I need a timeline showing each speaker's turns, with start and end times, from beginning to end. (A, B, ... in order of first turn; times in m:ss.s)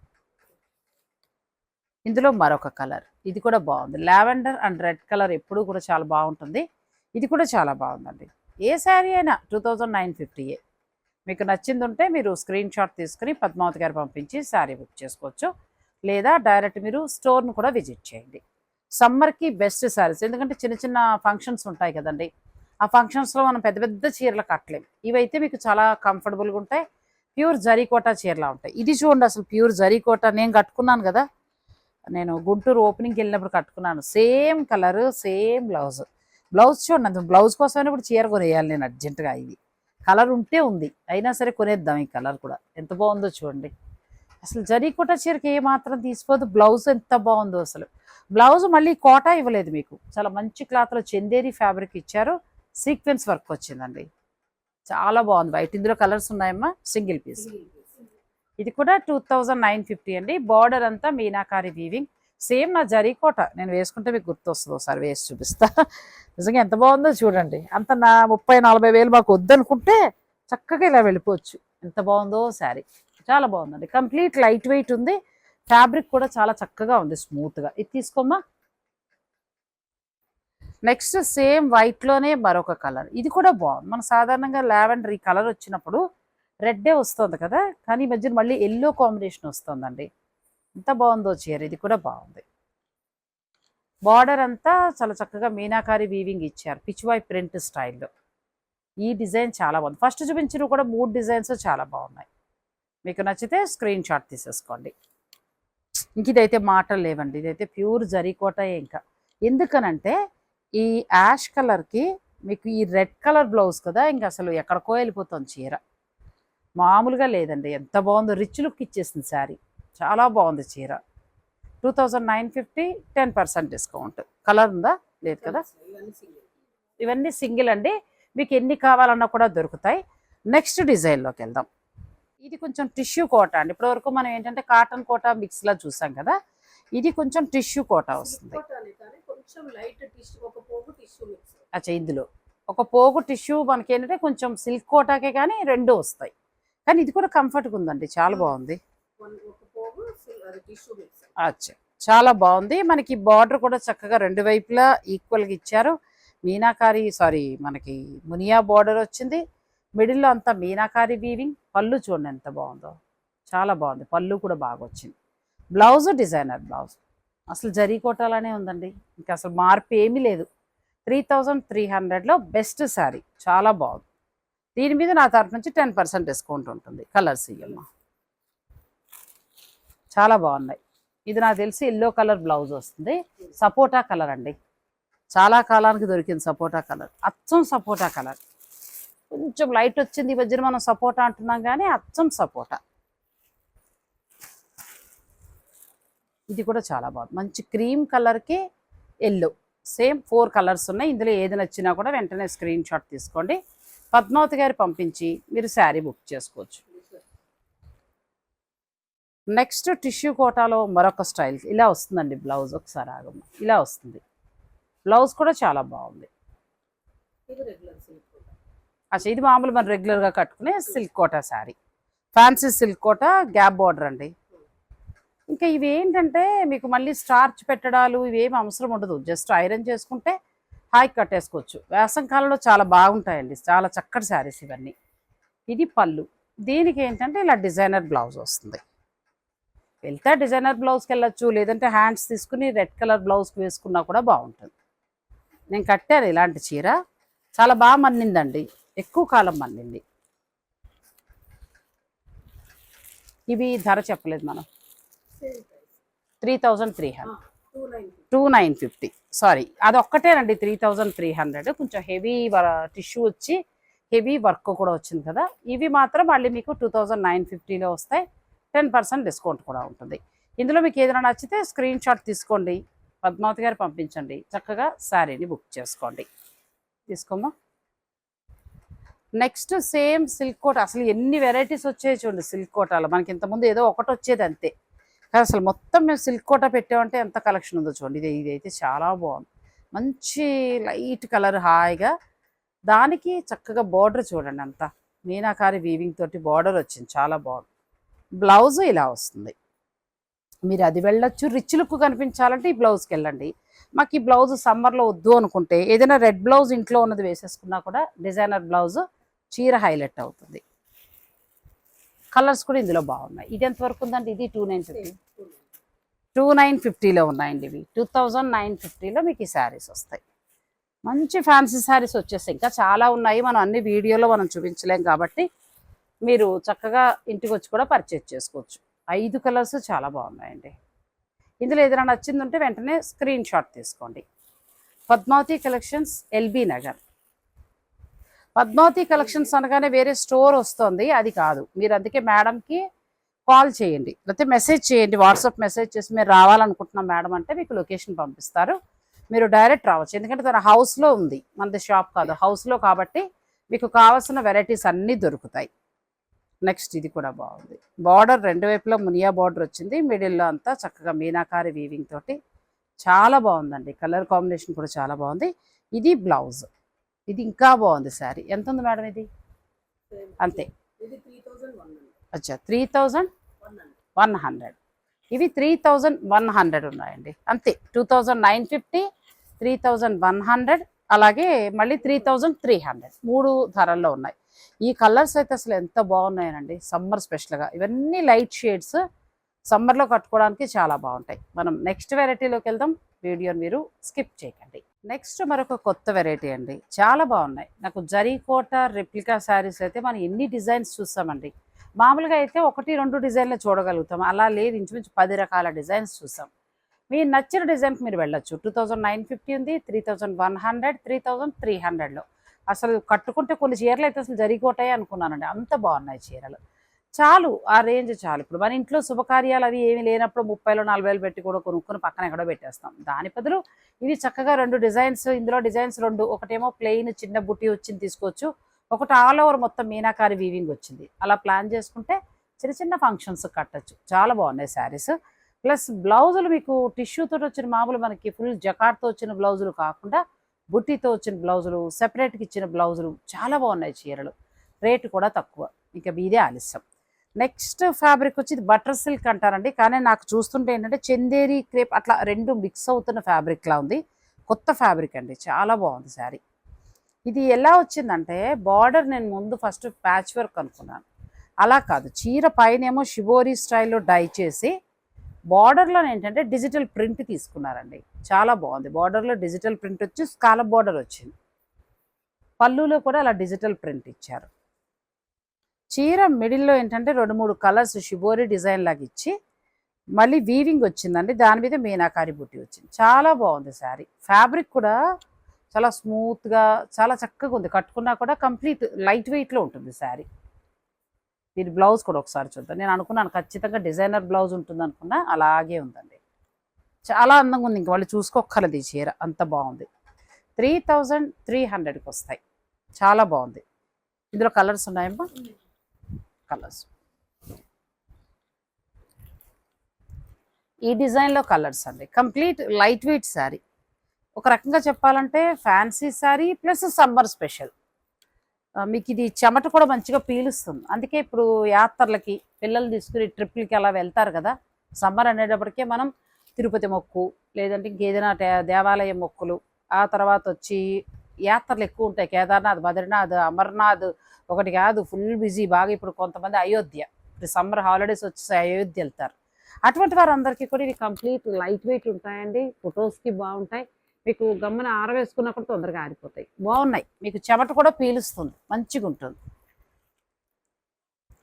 0:02.1-0:06.6 A
0:07.2-0:10.6 A
0:11.3-0:15.5 A
0:16.1-0:18.4 A
0:19.0-0:22.3 A
0:22.8-0:26.8 A
0:27.4-0:31.2 A
0:32.1-0:36.0 A
0:36.6-0:43.7 A
0:44.4-0:54.1 A
0:54.9-0:57.5 A
0:57.4-0:58.0 B
0:58.6-1:05.8 A
1:06.4-1:10.0 A
1:10.5-1:15.2 A
1:15.7-1:18.4 A
1:20.9-1:26.0 A
1:26.6-1:30.1 A
1:30.8-1:32.4 A
1:34.1-1:38.1 A
1:39.0-1:42.3 A
1:43.0-1:44.9 A
1:46.2-1:50.2 A
1:50.8-1:55.8 A
1:56.8-2:01.0 A
2:01.8-2:05.6 A
2:05.3-2:06.5 B
2:07.0-2:11.7 A
2:12.4-2:16.3 A
2:17.0-2:18.6 A
2:18.2-2:21.6 B
2:21.7-2:26.3 A
2:26.9-2:28.8 A
2:29.2-2:31.4 B
2:31.4-2:35.9 A
2:36.5-2:39.4 A
2:40.0-2:42.9 A
2:43.5-2:45.1 A
2:45.8-2:47.0 A
2:47.5-2:50.5 A
2:51.1-2:54.0 A
2:54.8-2:57.9 A
3:00.1-3:04.6 A
3:05.4-3:08.4 A
3:09.3-3:12.8 A
3:16.5-3:18.6 A
3:19.3-3:23.6 A
3:24.1-3:26.8 A
3:26.9-3:27.2 B
3:29.5-3:34.2 A
3:35.1-3:36.3 A
3:37.5-3:38.5 B
3:39.1-3:41.8 A
3:42.4-3:44.3 A
3:45.5-3:50.3 A
3:51.0-3:54.9 A
3:55.7-3:58.8 A
4:00.0-4:04.7 A
4:05.7-4:07.0 A
4:07.6-4:10.0 A
4:13.5-4:14.6 A
4:15.4-4:16.0 B
4:16.4-4:17.3 A
4:17.3-4:18.3 B
4:18.3-4:23.6 A
4:24.1-4:36.3 A
4:37.1-4:37.5 A
4:39.4-4:44.7 A
4:45.3-4:52.1 A
4:52.9-4:57.7 A
4:58.4-4:59.5 A
5:00.7-5:10.6 A
5:12.3-5:15.2 A
5:14.9-5:15.6 B
5:16.4-5:20.2 A
5:21.1-5:25.4 A
5:26.3-5:30.7 A
5:31.6-5:34.2 A
5:35.1-5:37.0 A
5:38.6-5:42.8 A
5:43.5-5:48.8 A
5:49.3-5:55.7 A
5:56.6-6:02.4 A
6:03.0-6:06.7 A
6:07.3-6:09.3 A
6:10.1-6:12.2 B
6:10.4-6:10.7 A
6:12.3-6:13.3 A
6:13.6-6:14.0 B
6:14.2-6:14.8 A
6:15.3-6:19.0 A
6:19.6-6:29.0 A
6:29.7-6:46.5 A
6:47.1-6:56.6 A
6:57.2-7:20.2 A
7:20.7-7:24.3 A
7:24.8-7:26.8 A
7:27.4-7:36.4 A
7:37.3-7:41.0 A
7:41.6-7:44.7 A
7:45.5-7:51.3 A
7:52.6-7:54.5 A
7:55.9-7:59.3 A
8:00.2-8:05.0 A
8:05.7-8:10.2 A
8:11.6-8:16.2 A
8:17.0-8:19.9 A
8:20.6-8:22.4 A
8:23.0-8:23.6 A
8:24.3-8:25.3 A
8:26.5-8:26.9 A
8:30.9-8:33.6 A
8:34.4-8:37.7 A
8:38.8-8:50.8 A
8:51.5-8:59.4 A
8:59.9-9:09.4 A